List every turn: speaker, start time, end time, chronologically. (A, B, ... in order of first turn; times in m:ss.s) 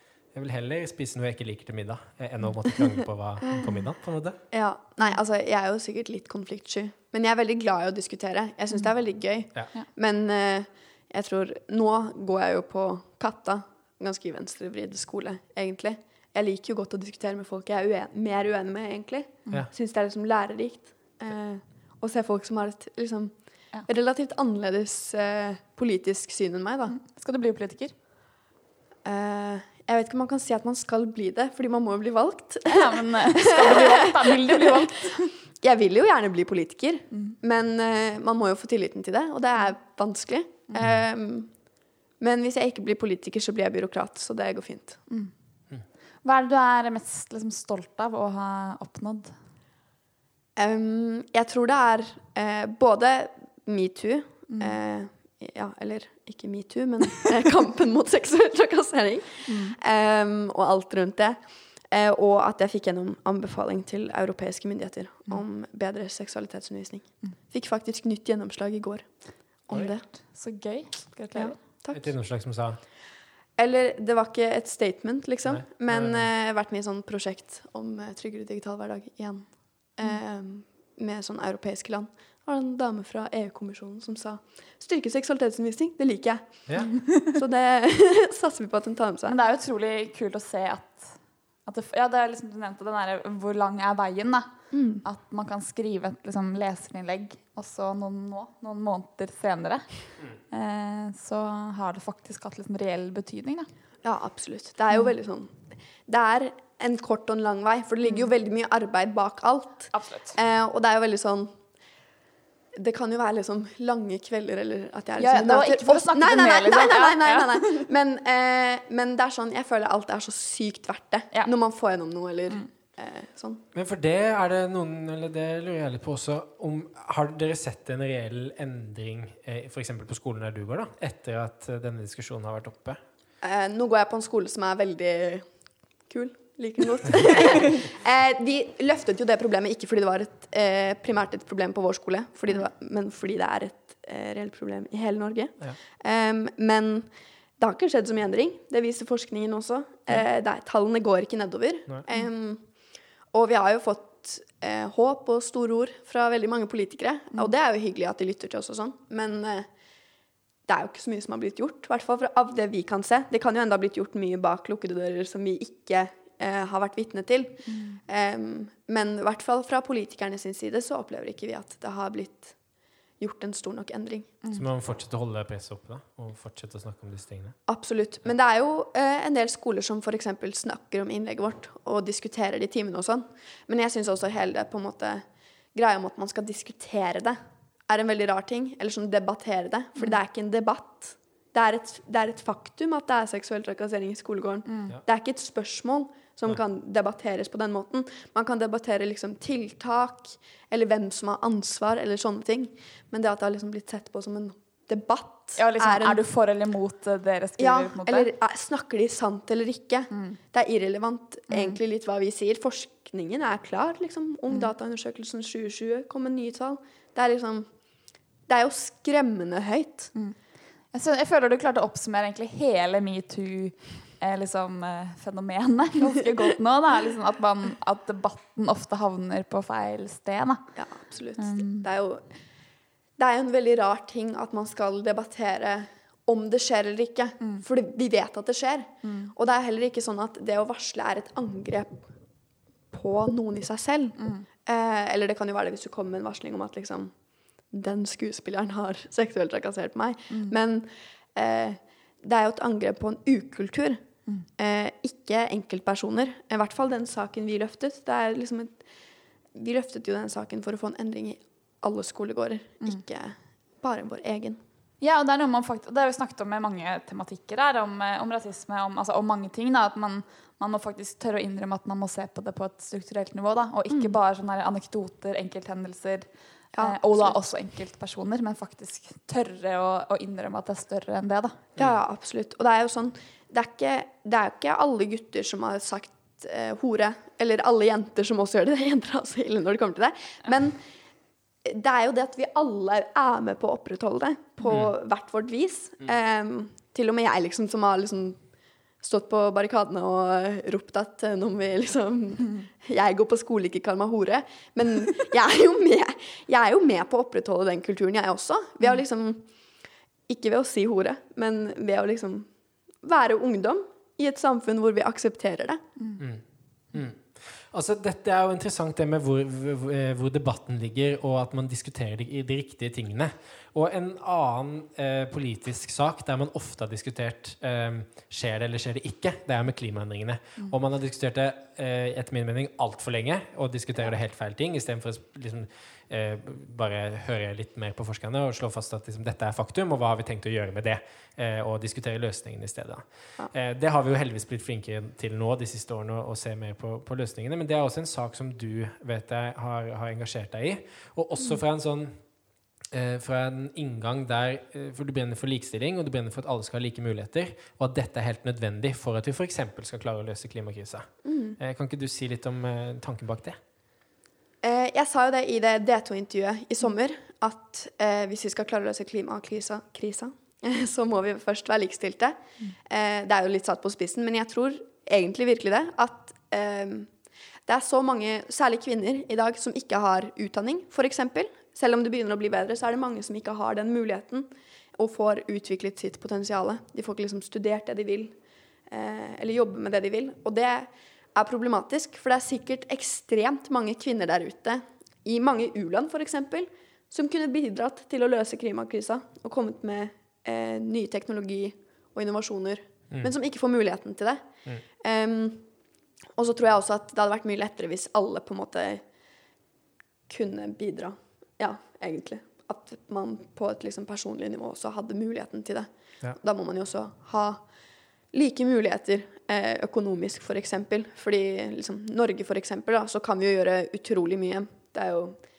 0:00.3-0:04.4 A
0:04.5-0:23.3 B
0:23.8-0:27.0 B
0:26.9-0:27.9 C
0:29.0-0:41.5 B
0:32.7-0:35.3 C
0:37.1-0:37.4 C
0:42.2-0:45.0 B
0:46.2-0:49.3 C
0:50.6-1:09.1 B
0:54.5-0:54.7 C
0:59.4-0:59.8 C
1:09.6-1:10.0 B
1:10.1-1:11.6 C
1:11.3-1:12.0 B
1:11.9-1:12.8 A
1:13.6-1:29.4 B
1:15.4-1:16.3 A
1:29.2-1:34.5 C
1:34.7-1:35.0 B
1:35.0-1:39.8 C
1:40.5-1:43.7 C
1:44.0-1:51.5 B
1:49.9-1:50.4 C
1:52.8-2:03.6 B
1:55.2-1:57.8 C
2:03.7-2:13.0 A
2:13.4-2:15.5 B
2:16.1-2:32.6 B
2:33.3-2:39.7 B
2:40.7-2:52.6 B
2:47.6-2:48.0 C
2:53.2-2:54.4 B
2:54.5-2:57.6 A
2:57.7-3:05.2 B
3:05.7-3:26.2 B
3:14.7-3:14.9 C
3:25.6-3:28.3 C
3:27.6-3:37.7 B
3:30.1-3:30.4 C
3:31.5-3:31.8 C
3:38.5-3:40.1 B
3:40.9-3:50.7 C
3:50.8-3:52.2 B
3:51.4-3:51.9 C
3:53.2-4:02.1 B
3:59.0-3:59.3 C
4:02.9-4:07.1 B
4:04.2-4:04.4 C
4:07.7-4:14.0 B
4:14.6-4:18.8 B
4:19.5-4:24.6 B
4:25.0-4:36.3 C
4:33.9-4:34.1 B
4:36.7-4:37.4 B
4:36.8-4:41.6 C
4:41.8-4:50.8 B
4:51.6-4:58.4 B
4:54.7-4:54.9 A
4:59.0-5:09.4 B
5:10.3-5:12.5 B
5:13.0-5:15.8 B
5:16.2-5:52.2 A
5:52.9-6:03.6 A
6:01.2-6:01.6 B
6:04.6-6:17.1 B
6:17.7-6:28.3 B
6:28.9-6:44.5 B
6:45.0-6:45.7 B
6:46.4-6:49.0 B
6:50.3-6:57.6 B
6:58.3-7:05.4 B